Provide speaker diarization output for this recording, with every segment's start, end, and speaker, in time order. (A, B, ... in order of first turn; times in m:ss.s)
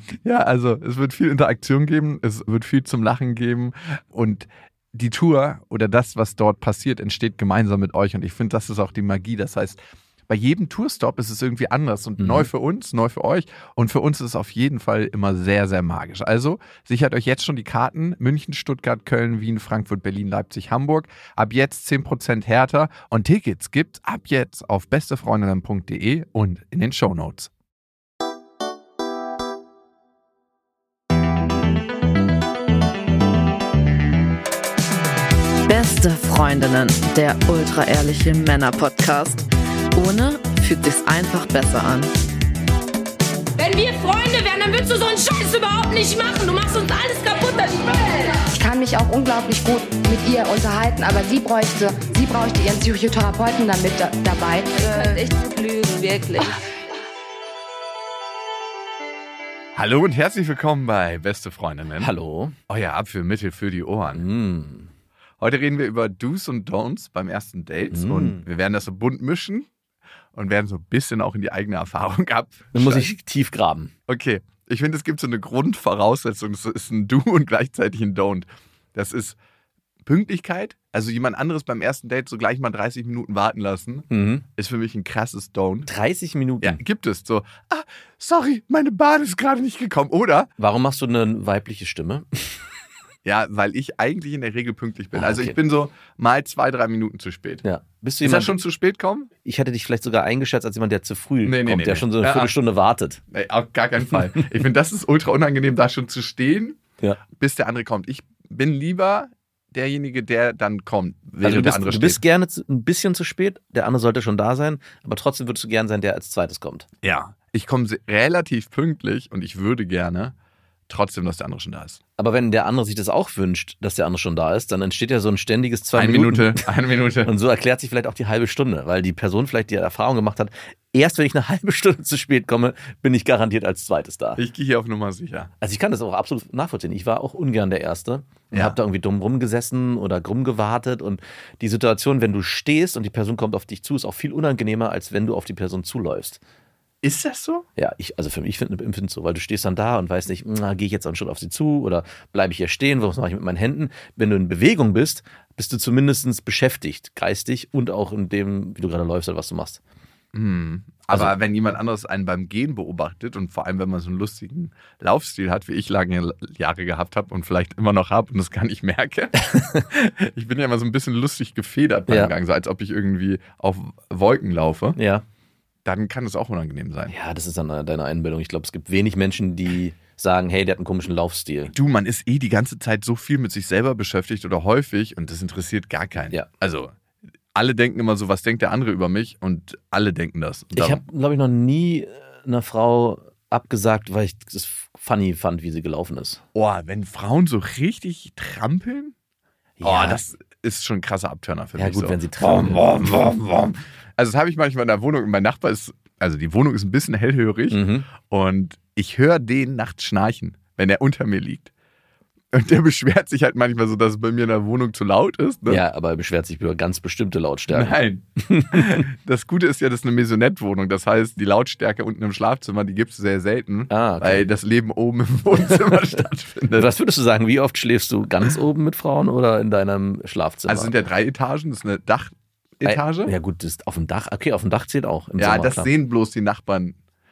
0:00.2-0:27.5 A
0:12.2-0:12.5 B
0:35.7-0:39.4 C
0:40.0-0:42.1 C
0:43.6-0:48.5 D
0:48.5-0:55.2 E
0:54.8-0:56.6 D
0:59.8-1:02.1 A
1:02.0-1:02.6 B
1:02.7-1:04.2 A
1:04.2-1:04.9 B
1:05.4-1:09.7 A
1:07.9-1:08.4 B
1:10.4-1:13.1 A
1:12.7-1:13.9 B
1:14.1-1:19.4 A
1:20.1-1:25.9 A
1:24.1-1:24.4 B
1:25.9-1:26.8 B
1:26.6-1:30.5 A
1:30.6-1:32.6 B
1:33.2-1:37.6 A
1:35.1-1:35.6 B
1:37.6-1:38.5 B
1:38.2-1:39.3 A
1:39.4-1:43.2 B
1:41.4-1:42.6 A
1:43.3-1:46.8 A
1:47.4-1:52.2 A
1:51.4-1:56.9 B
1:57.0-2:00.3 A
2:00.9-2:02.0 A
2:02.2-2:06.7 B
2:05.9-2:07.3 A
2:07.2-2:14.4 B
2:14.4-2:15.5 A
2:15.6-2:26.4 B
2:27.0-2:27.6 A
2:27.8-2:39.8 B
2:40.3-2:55.0 A
2:49.4-2:49.8 B
2:52.1-2:52.3 B
2:55.0-2:55.2 B
2:55.8-2:57.1 A
2:57.1-3:01.7 B
3:01.7-3:06.9 A
3:07.5-3:11.0 A
3:10.8-3:16.4 B
3:16.6-3:19.1 A
3:19.8-3:20.2 B
3:19.8-3:31.7 A
3:21.8-3:22.9 B
3:27.7-3:28.1 B
3:32.5-3:35.8 A
3:35.7-3:39.0 B
3:37.7-3:46.9 A
3:43.9-3:44.5 B
3:45.6-3:46.2 B
3:46.8-3:50.9 B
3:50.7-3:53.3 A
3:52.8-3:55.9 B
3:55.4-3:57.0 A